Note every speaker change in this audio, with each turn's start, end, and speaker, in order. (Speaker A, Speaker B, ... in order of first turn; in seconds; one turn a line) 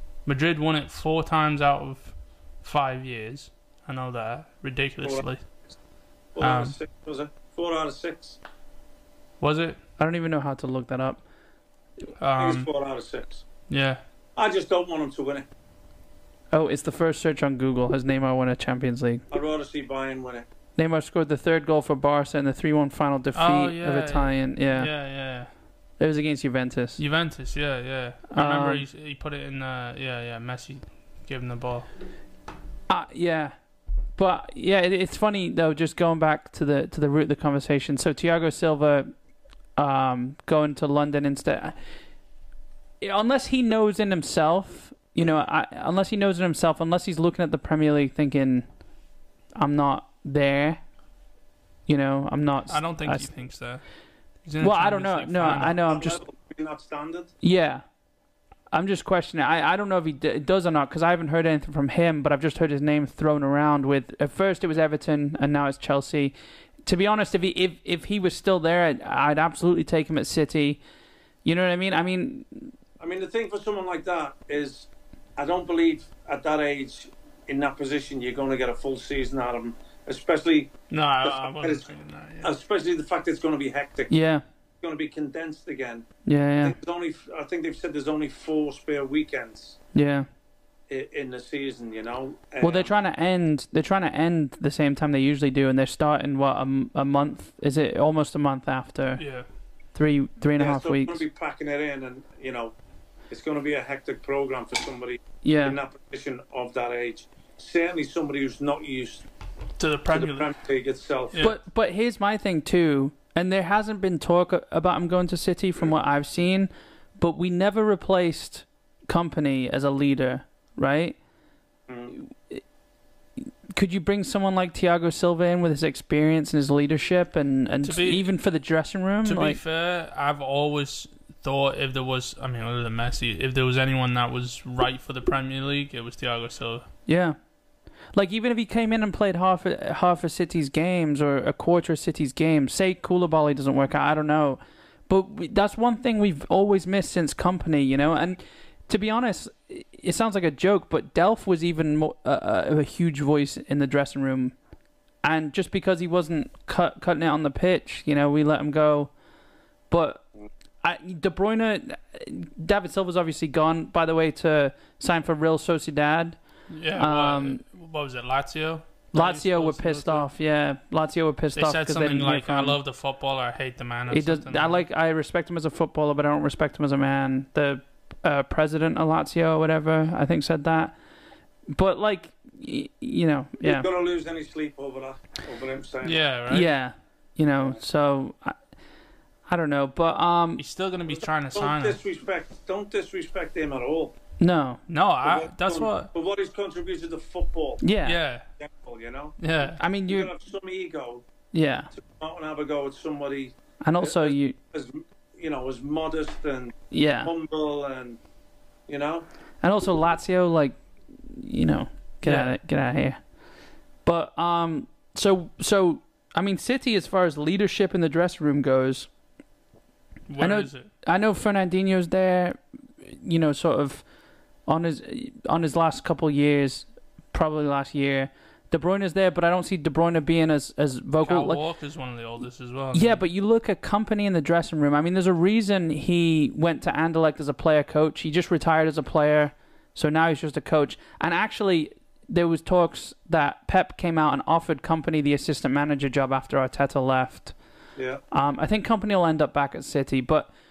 Speaker A: 0.2-5.4
Speaker B: 6.3-8.4
Speaker A: 6.4-6.8
Speaker A: 9.4-9.8
Speaker C: 10.0-11.2
Speaker A: 12.2-12.7
Speaker B: 12.4-13.5
Speaker A: 13.7-14.0
Speaker B: 14.4-15.5
Speaker C: 16.5-19.2
Speaker B: 19.3-20.5
Speaker C: 20.8-24.9
Speaker A: 23.4-25.5
Speaker C: 26.0-27.0
Speaker A: 27.0-31.9
Speaker C: 28.3-28.8
Speaker C: 32.9-33.5
Speaker C: 34.2-39.1
Speaker C: 39.8-41.8
Speaker C: 43.0-48.7
Speaker C: 49.6-50.8
Speaker C: 51.9-53.3
Speaker A: 52.7-53.8
Speaker A: 54.5-55.8
Speaker C: 54.6-56.2
Speaker B: 55.9-57.3
Speaker C: 57.4-57.8
Speaker C: 58.7-70.8
Speaker C: 71.5-72.7
Speaker B: 73.0-80.7
Speaker A: 80.9-82.5
Speaker B: 81.2-81.9
Speaker B: 82.4-84.1
Speaker C: 84.1-84.4
Speaker B: 84.8-86.1
Speaker C: 86.3-86.8
Speaker B: 86.6-89.8
Speaker C: 89.9-90.3
Speaker B: 90.9-92.9
Speaker C: 92.6-99.2
Speaker A: 99.2-99.5
Speaker C: 100.0-101.2
Speaker B: 100.6-102.8
Speaker B: 103.3-109.3
Speaker C: 105.4-105.8
Speaker A: 109.8-110.5
Speaker B: 110.1-111.5
Speaker C: 111.4-121.2
Speaker B: 121.9-122.1
Speaker C: 122.1-122.6
Speaker C: 123.7-129.6
Speaker A: 127.8-128.3
Speaker A: 129.2-136.9
Speaker C: 137.1-137.4
Speaker C: 138.1-154.5
Speaker C: 155.2-159.1
Speaker C: 159.9-160.2
Speaker C: 160.8-166.4
Speaker A: 166.7-170.3
Speaker C: 167.0-167.6
Speaker C: 169.1-172.8
Speaker A: 171.5-174.8
Speaker C: 174.1-180.9
Speaker C: 181.7-183.9
Speaker B: 183.6-186.2
Speaker A: 186.0-186.7
Speaker C: 186.5-188.6
Speaker C: 189.5-190.6
Speaker A: 190.6-192.0
Speaker B: 191.1-194.2
Speaker C: 194.4-194.8
Speaker A: 194.9-196.1
Speaker B: 195.2-197.8
Speaker C: 197.8-198.2
Speaker A: 198.1-198.4
Speaker B: 198.6-199.4
Speaker A: 199.4-199.8
Speaker C: 199.8-200.3
Speaker B: 200.1-201.3
Speaker C: 201.5-201.9
Speaker B: 201.9-208.2
Speaker C: 203.8-204.6
Speaker C: 206.9-207.3
Speaker B: 208.9-209.3
Speaker C: 209.6-213.2
Speaker A: 212.2-212.5
Speaker C: 214.1-219.1
Speaker A: 220.3-220.9
Speaker C: 220.4-224.0
Speaker C: 224.7-231.6
Speaker A: 231.2-233.2
Speaker C: 232.9-247.6
Speaker B: 248.0-248.2
Speaker C: 248.3-250.5